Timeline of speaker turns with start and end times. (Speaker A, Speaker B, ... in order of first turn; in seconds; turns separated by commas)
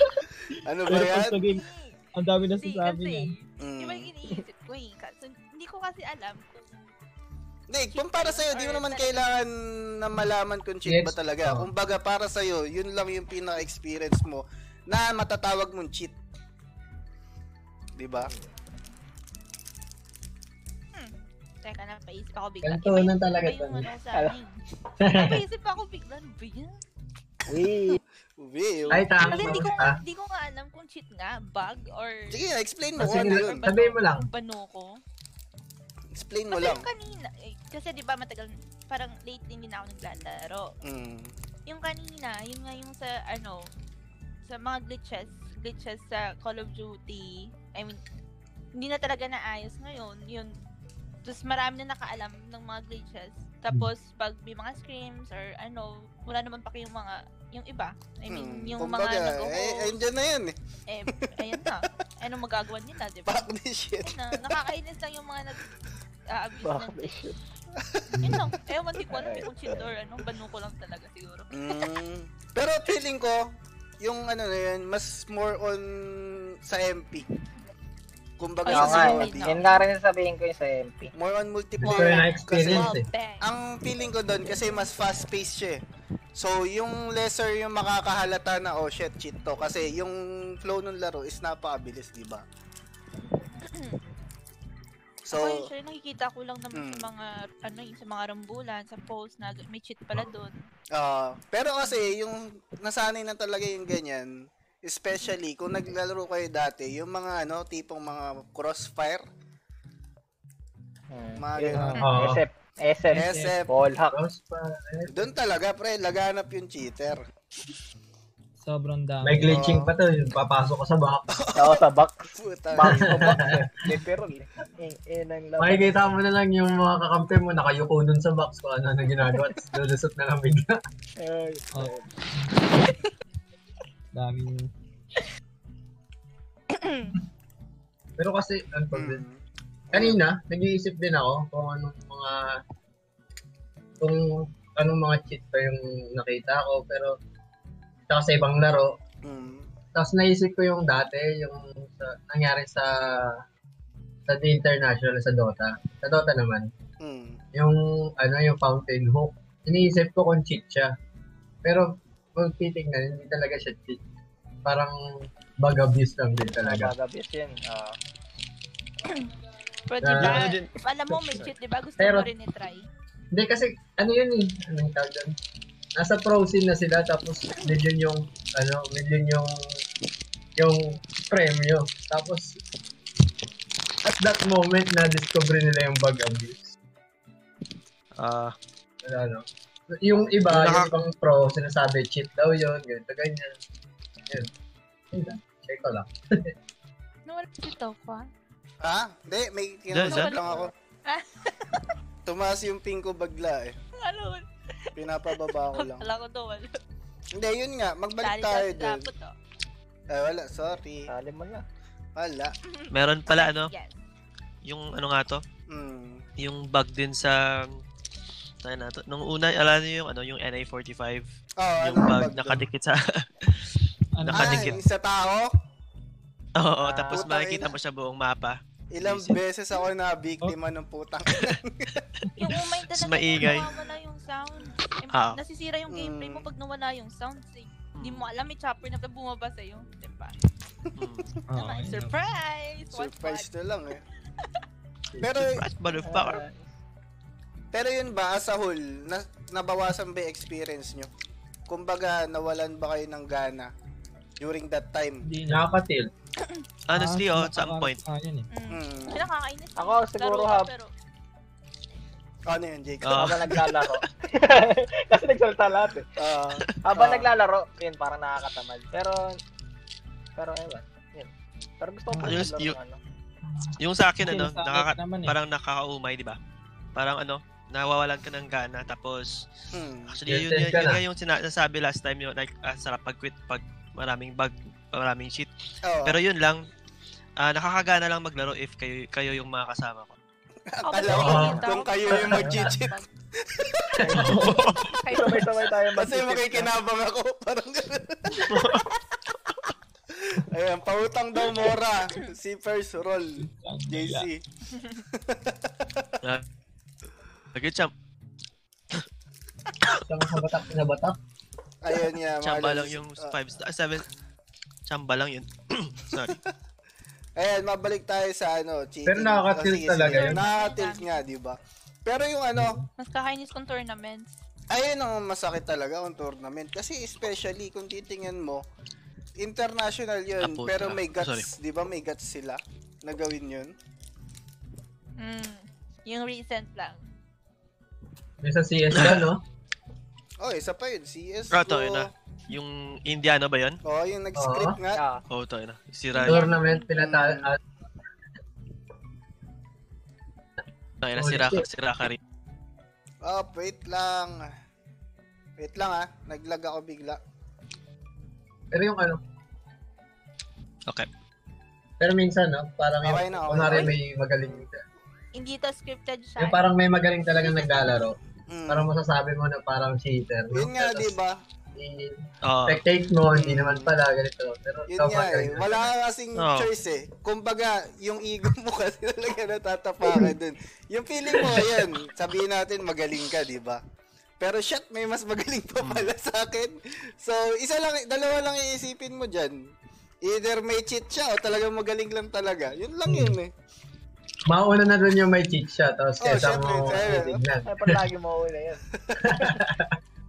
Speaker A: 0.6-1.5, Speaker B: 0.8-3.3, Speaker C: 1.5-2.0, Speaker C: 2.5-6.9, Speaker A: 3.6-4.1, Speaker A: 7.7-16.1, Speaker C: 7.9-9.3, Speaker D: 10.8-11.7, Speaker A: 18.0-18.3, Speaker C: 20.9-24.6, Speaker D: 22.6-23.9, Speaker D: 25.0-25.4, Speaker C: 25.1-26.8, Speaker E: 27.5-28.0, Speaker A: 27.9-29.7, Speaker C: 28.9-32.4, Speaker D: 28.9-30.0, Speaker A: 32.3-33.6, Speaker D: 33.0-34.3, Speaker C: 33.0-35.0, Speaker A: 36.1-36.9, Speaker C: 36.5-40.7, Speaker A: 40.8-41.3, Speaker C: 41.7-43.7, Speaker C: 44.5-48.0, Speaker C: 48.8-50.5, Speaker C: 51.2-60.0, Speaker A: 58.3-60.6, Speaker C: 60.9-63.5, Speaker A: 61.1-61.8, Speaker A: 63.2-64.5, Speaker C: 64.0-65.6, Speaker C: 66.3-67.3, Speaker E: 66.6-67.4, Speaker A: 67.8-68.1, Speaker C: 68.2-71.5, Speaker E: 69.1-69.9, Speaker A: 71.5-77.3, Speaker A: 78.4-79.6, Speaker C: 78.6-79.7, Speaker E: 78.7-81.1, Speaker A: 81.1-85.8, Speaker D: 81.8-83.0, Speaker C: 81.9-83.5, Speaker A: 86.3-92.4, Speaker C: 93.7-94.0, Speaker A: 95.2-95.7, Speaker C: 95.3-100.7, Speaker A: 96.7-97.1, Speaker A: 100.9-109.2, Speaker E: 111.1-114.2, Speaker A: 111.4-112.0, Speaker B: 111.7-112.1, Speaker D: 112.0-112.4, Speaker B: 113.1-113.5, Speaker A: 113.1-113.7, Speaker D: 114.1-115.2, Speaker A: 115.1-117.2, Speaker B: 118.6-119.7, Speaker D: 119.2-121.3, Speaker A: 119.4-119.9, Speaker A: 121.3-121.8, Speaker E: 121.5-126.0, Speaker A: 122.3-123.3, Speaker D: 122.8-123.7, Speaker D: 125.6-130.8, Speaker E: 131.2-132.1, Speaker B: 131.7-132.6, Speaker B: 134.1-134.7, Speaker C: 136.7-137.2, Speaker D: 138.2-139.2, Speaker A: 138.9-140.2, Speaker D: 139.9-142.6, Speaker D: 144.0-147.2, Speaker D: 148.1-148.9, Speaker A: 149.2-149.7, Speaker D: 149.9-153.4, Speaker D: 154.3-156.7, Speaker A: 157.0-157.4, Speaker D: 157.5-160.9, Speaker D: 161.6-164.0, Speaker D: 164.6-166.9, Speaker E: 166.4-167.9, Speaker C: 169.9-172.9, Speaker D: 170.0-170.5, Speaker D: 172.0-172.3, Speaker D: 173.3-175.3, Speaker D: 176.0-179.8, Speaker D: 180.6-182.6, Speaker D: 184.0-186.8, Speaker F: 188.2-188.5, Speaker D: 189.0-193.6, Speaker F: 190.5-190.9, Speaker D: 195.1-196.5, Speaker C: 197.3-198.3, Speaker A: 198.8-200.7, Speaker F: 199.9-200.4, Speaker C: 200.1-200.4, Speaker C: 201.1-201.9, Speaker A: 202.2-203.7, Speaker C: 203.9-206.8, Speaker A: 204.9-206.1, Speaker A: 207.3-209.1, Speaker C: 208.2-209.3, Speaker A: 210.1-211.1, Speaker E: 211.1-211.6, Speaker A: 212.2-212.5, Speaker C: 212.7-213.9, Speaker F: 212.9-213.7, Speaker F: 214.6-215.4, Speaker A: 215.7-216.2, Speaker F: 216.4-217.8, Speaker F: 218.6-224.8, Speaker A: 221.6-222.7, Speaker B: 224.1-224.8, Speaker A: 224.3-225.5, Speaker F: 226.6-229.4, Speaker E: 226.8-227.2, Speaker A: 227.1-227.7, Speaker A: 228.9-232.1, Speaker C: 232.4-240.3, Speaker F: 232.4-233.7, Speaker F: 235.1-235.4, Speaker A: 235.9-236.5, Speaker F: 237.9-238.3, Speaker F: 240.9-241.3, Speaker B: 241.5-242.1, Speaker C: 241.5-243.5, Speaker A: 242.9-244.0, Speaker A: 245.2-245.6, Speaker F: 245.3-246.4, Speaker E: 246.0-246.7, Speaker A: 247.7-251.1, Speaker A: 251.7-253.7, Speaker A: 254.4-255.2, Speaker B: 255.2-255.7, Speaker D: 255.5-256.1, Speaker F: 256.9-258.0, Speaker B: 256.9-258.5, Speaker C: 258.5-260.9, Speaker A: 258.7-259.2, Speaker E: 259.8-260.7, Speaker A: 262.4-263.4, Speaker F: 263.0-263.6, Speaker E: 263.1-266.1, Speaker A: 266.2-267.3, Speaker E: 266.8-269.4, Speaker E: 270.4-271.3, Speaker E: 271.8-273.0, Speaker B: 272.1-272.4, Speaker F: 272.2-272.8, Speaker B: 273.6-275.4, Speaker F: 273.8-276.4, Speaker F: 276.9-279.5, Speaker A: 279.7-280.1, Speaker F: 280.1-285.5, Speaker D: 280.3-281.0, Speaker A: 285.8-286.2, Speaker F: 286.0-286.7, Speaker F: 287.4-290.1, Speaker A: 290.7-294.1, Speaker C: 290.8-293.1, Speaker D: 291.1-292.7, Speaker E: 294.0-294.5, Speaker B: 294.1-294.9, Speaker F: 294.2-294.8, Speaker C: 294.9-295.6, Speaker E: 295.1-296.7, Speaker A: 295.9-298.9, Speaker F: 298.4-298.9, Speaker A: 300.1-304.4, Speaker B: 303.4-304.3, Speaker A: 305.1-306.1, Speaker F: 307.5-307.9, Speaker D: 310.1-311.2, Speaker A: 311.8-313.3, Speaker F: 312.4-314.1, Speaker F: 314.9-316.4, Speaker A: 316.1-316.4, Speaker A: 317.4-322.8, Speaker D: 319.1-320.4, Speaker C: 320.1-321.2, Speaker C: 323.0-324.4, Speaker A: 324.7-328.6, Speaker A: 329.4-333.7, Speaker F: 330.4-331.5, Speaker C: 335.2-337.0, Speaker D: 338.4-339.4, Speaker F: 338.9-339.2, Speaker A: 340.4-342.1, Speaker F: 341.5-343.8, Speaker A: 343.8-345.0, Speaker D: 344.4-344.8, Speaker E: 344.9-345.2, Speaker F: 345.3-346.5, Speaker C: 346.1-347.0, Speaker D: 346.2-347.6, Speaker A: 347.0-347.5, Speaker F: 351.0-352.2, Speaker D: 351.1-351.6, Speaker A: 353.2-354.5, Speaker A: 355.6-357.2, Speaker D: 358.7-359.2, Speaker D: 362.0-364.8, Speaker A: 363.0-364.6, Speaker C: 365.3-366.6, Speaker D: 366.4-371.1, Speaker A: 367.4-368.9, Speaker A: 370.5-371.4, Speaker D: 371.8-375.9, Speaker F: 372.4-372.8, Speaker A: 373.3-373.9, Speaker A: 374.9-383.8, Speaker F: 376.4-376.7, Speaker A: 384.4-389.6, Speaker F: 385.8-386.1, Speaker A: 390.2-393.5, Speaker D: 393.1-393.4, Speaker D: 394.5-398.0, Speaker A: 396.2-397.4, Speaker E: 397.6-398.8, Speaker A: 399.0-399.4, Speaker D: 399.2-399.9